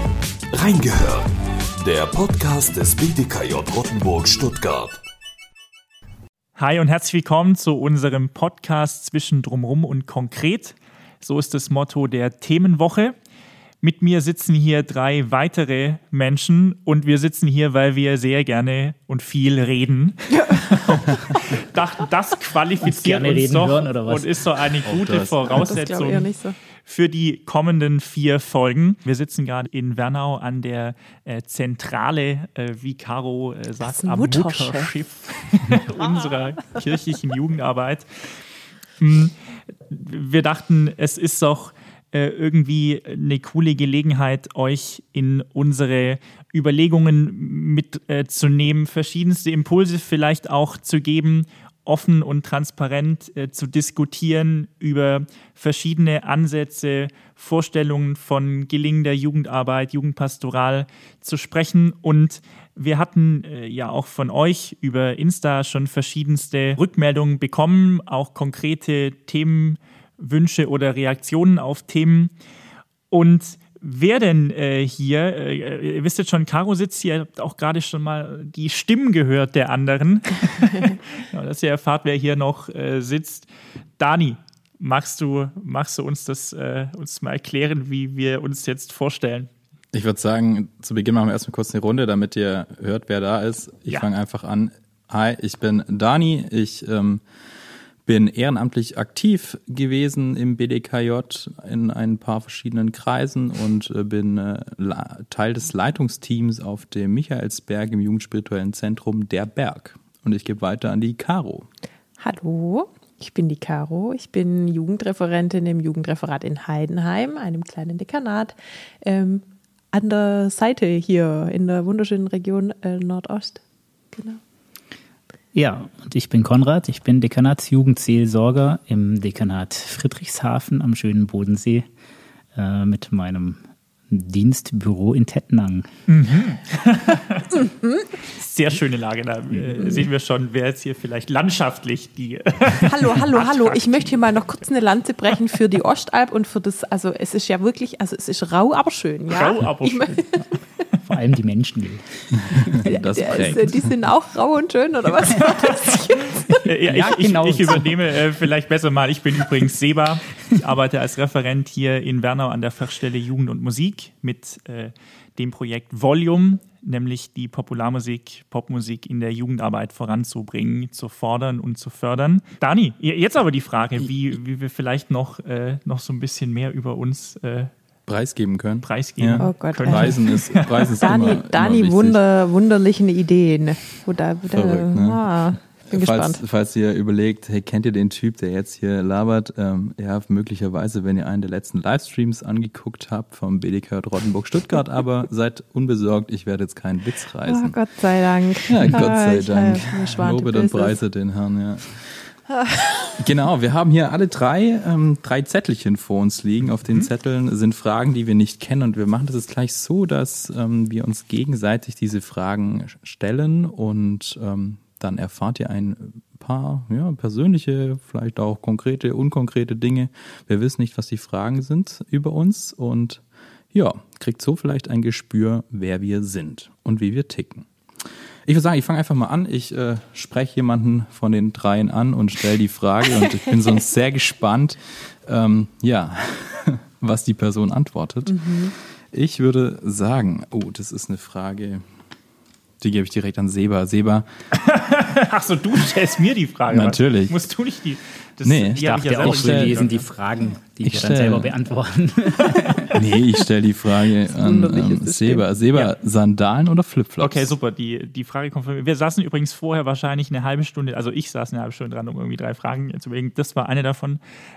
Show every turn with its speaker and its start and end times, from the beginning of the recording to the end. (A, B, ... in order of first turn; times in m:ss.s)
0:00.5-0:05.0 A
0:06.6-0:13.2 B
0:13.8-0:38.1 B
0:20.4-0:21.0 C
0:22.8-0:25.4 D
0:25.4-0:26.6 C
0:33.8-0:34.9 C
0:39.0-0:39.4 B
0:39.9-1:12.3 B
1:13.1-1:29.5 B
1:29.9-1:37.2 E
1:38.0-1:51.7 E
1:52.2-2:03.6 C
2:04.1-2:04.4 C
2:05.5-2:11.9 D
2:12.6-2:13.6 D
2:14.1-2:15.9 D
2:16.1-2:17.7 B
2:18.3-2:24.4 B
2:22.9-2:30.5 C
2:29.3-2:30.6 B
2:31.1-2:32.9 D
2:32.7-2:33.8 E
2:32.8-2:36.7 C
2:35.4-2:57.7 B
2:36.8-2:38.0 D
2:58.1-3:02.2 E
2:58.8-3:01.0 B
2:59.4-3:00.2 C
3:01.0-3:06.4 C
3:04.5-3:05.3 E
3:05.8-3:17.8 E
3:17.4-3:21.0 C
3:18.7-3:22.0 E
3:22.5-3:23.2 C
3:23.2-3:47.7 E
3:48.5-4:01.8 E
3:58.3-3:58.7 C
4:02.8-4:04.3 E
4:04.6-4:10.1 B
4:06.7-4:07.4 E
4:08.4-4:09.9 E
4:08.8-4:13.1 D
4:10.8-4:11.5 E
4:13.0-4:17.5 E
4:14.2-4:15.5 C
4:17.2-4:24.2 B